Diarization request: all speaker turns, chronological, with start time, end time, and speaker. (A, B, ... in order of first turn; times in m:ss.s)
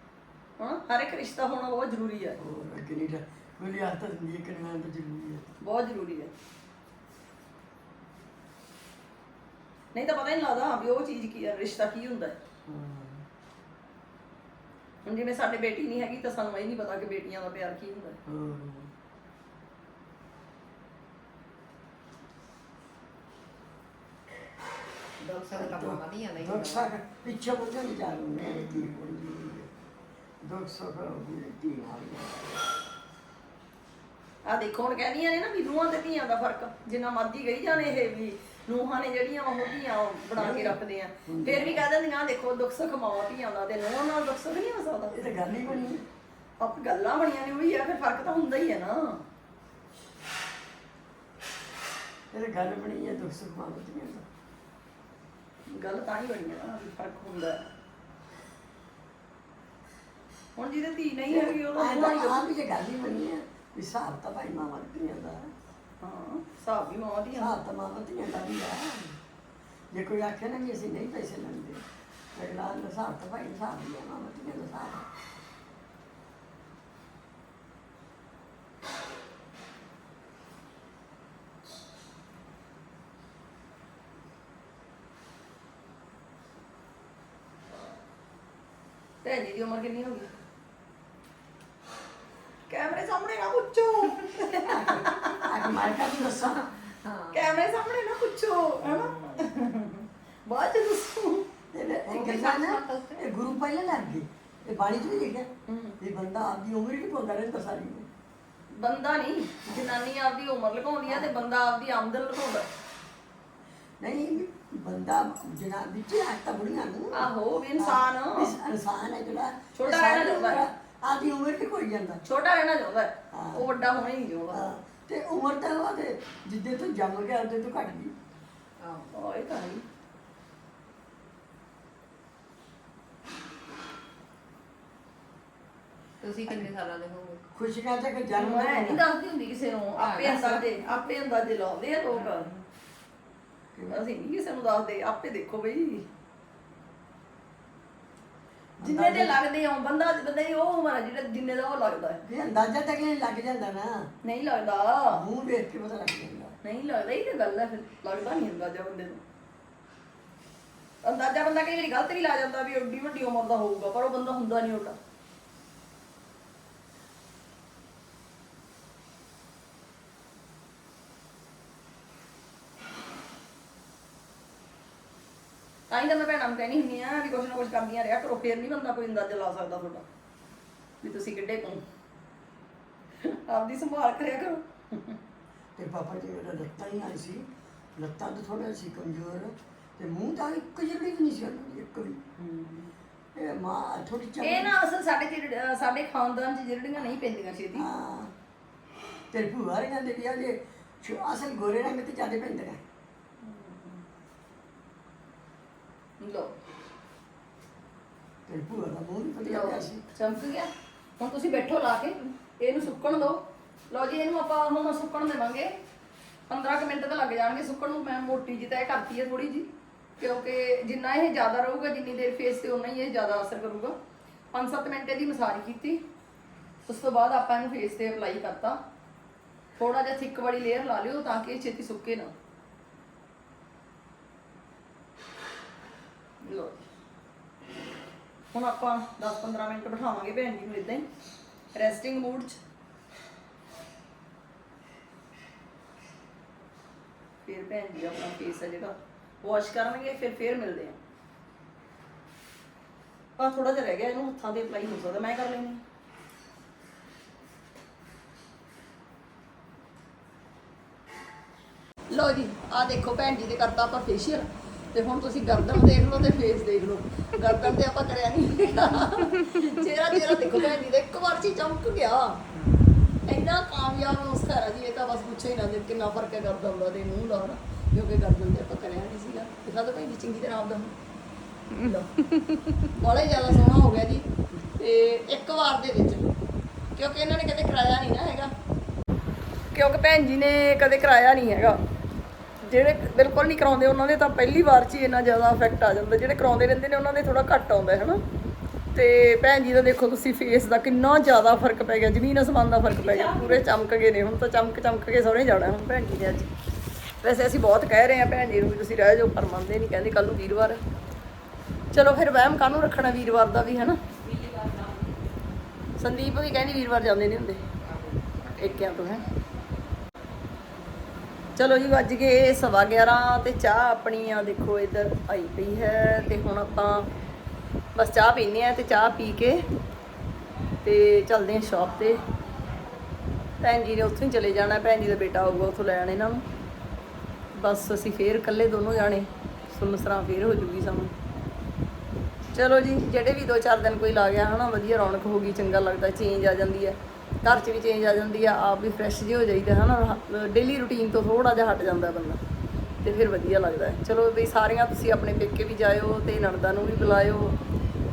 0:00.6-0:02.4 A
0:02.4-0:05.5 B
0:05.6-0:06.3 A
0:09.9-0:12.4 A
0:12.7-0:13.2 B
0:15.0-0:18.2 A
0:18.3-0:18.9 B
0:25.2-0:26.9 C
0:25.5-0:29.7 B
0:30.4-0:32.5 B
0:34.4-0:45.8 A
0:40.3-0:41.8 B
0:45.1-0:46.1 B
0:46.6-0:49.2 A
0:52.3-0:54.2 B
0:55.7-0:57.7 A
1:00.6-1:02.5 A
1:01.3-1:05.5 B
1:06.0-1:07.6 A
1:07.4-1:09.2 B
1:09.9-1:15.1 B
1:29.2-1:30.3 A
1:32.7-1:35.5 A
1:34.7-1:36.7 B
1:37.0-1:37.5 C
1:37.3-1:41.6 A
1:41.7-1:45.5 B
1:42.0-1:43.3 C
1:45.7-1:46.0 A
1:46.0-1:48.1 B
1:48.7-1:52.7 A
1:54.0-2:02.2 B
1:57.1-1:58.6 A
1:59.8-2:00.7 A
2:02.2-2:04.8 A
2:03.3-2:03.7 B
2:04.5-2:08.1 B
2:08.8-2:09.1 C
2:09.1-2:09.8 A
2:16.2-2:17.4 C
2:17.5-2:19.0 B
2:18.4-2:22.5 A
2:20.0-2:20.6 C
2:22.2-2:22.6 C
2:23.8-2:24.0 B
2:23.9-2:26.1 A
2:28.8-2:29.4 B
2:28.8-2:32.2 A
2:32.2-2:34.1 B
2:34.2-2:35.2 A
2:35.1-2:36.6 B
2:36.6-2:39.2 A
2:41.0-2:45.0 A
2:55.9-3:00.1 A
3:01.0-3:01.8 A
3:03.2-3:05.2 A
3:05.8-3:12.2 B
3:12.4-3:12.9 A
3:13.4-3:14.8 B
3:14.4-3:17.9 A
3:17.8-3:18.3 B
3:19.3-3:22.8 B
3:23.4-3:24.0 A
3:26.2-3:26.6 A
3:28.5-3:30.0 B
3:29.4-3:35.8 A
3:36.5-3:44.0 A
3:44.5-3:46.0 A
3:46.9-3:48.8 A
3:49.8-3:52.3 A
3:56.4-3:56.8 A
3:58.5-4:01.1 A
4:01.7-4:02.6 A
4:07.4-4:11.0 A
4:13.4-4:15.8 A
4:22.1-4:32.4 A
4:33.2-4:40.9 A
4:41.7-4:42.9 C
4:41.8-4:42.1 A
4:42.9-4:46.3 A
4:47.0-4:48.6 A
4:49.7-4:51.8 A
4:52.6-4:58.2 A
4:58.9-5:06.5 A
5:07.2-5:10.8 A
5:11.9-5:14.1 A
5:14.5-5:15.0 C
5:16.0-5:17.6 A
5:17.9-5:18.9 C
5:18.5-5:19.2 A
5:21.6-5:27.1 A
5:28.0-5:29.6 A
5:30.8-5:32.2 A
5:33.6-5:36.4 A
5:37.5-5:41.1 A
5:42.5-5:52.4 A
5:53.0-5:57.6 A